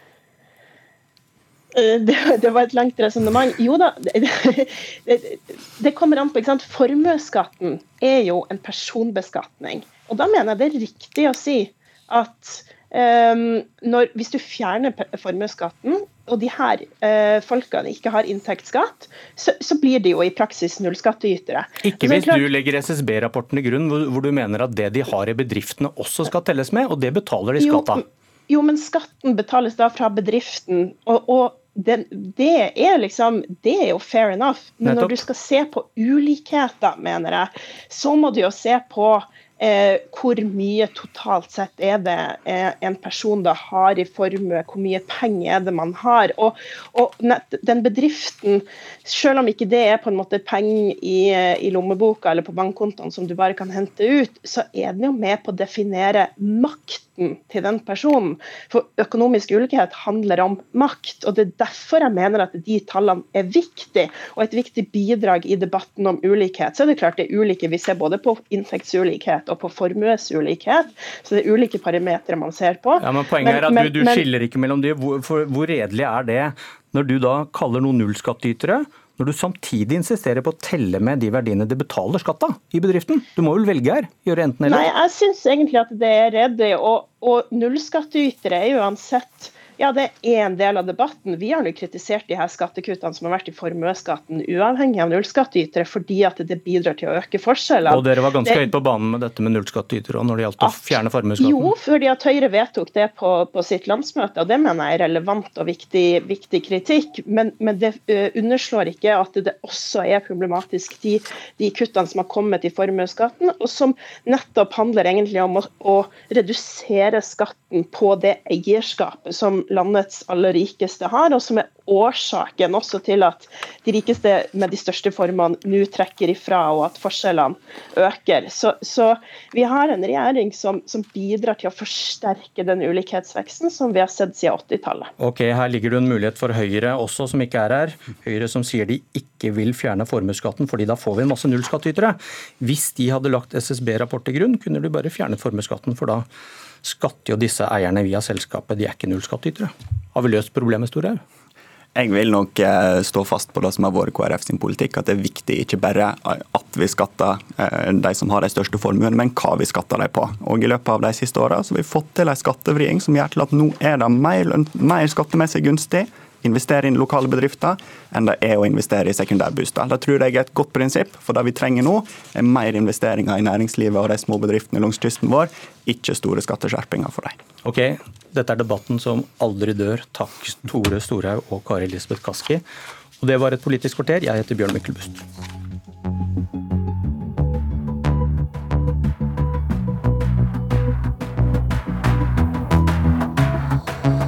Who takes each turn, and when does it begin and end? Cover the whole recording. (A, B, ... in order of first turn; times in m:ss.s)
0:01.7-0:22.4 A
0:21.8-0:28.0 B
0:27.6-1:14.2 A
0:34.8-0:35.2 B
1:13.0-1:24.9 B
1:24.6-1:38.6 A
1:37.9-1:41.7 B
1:40.6-2:15.1 A
2:15.2-2:26.2 B
2:26.8-2:31.2 B
2:32.0-2:57.4 C
2:57.6-3:02.6 B
3:03.2-3:05.2 B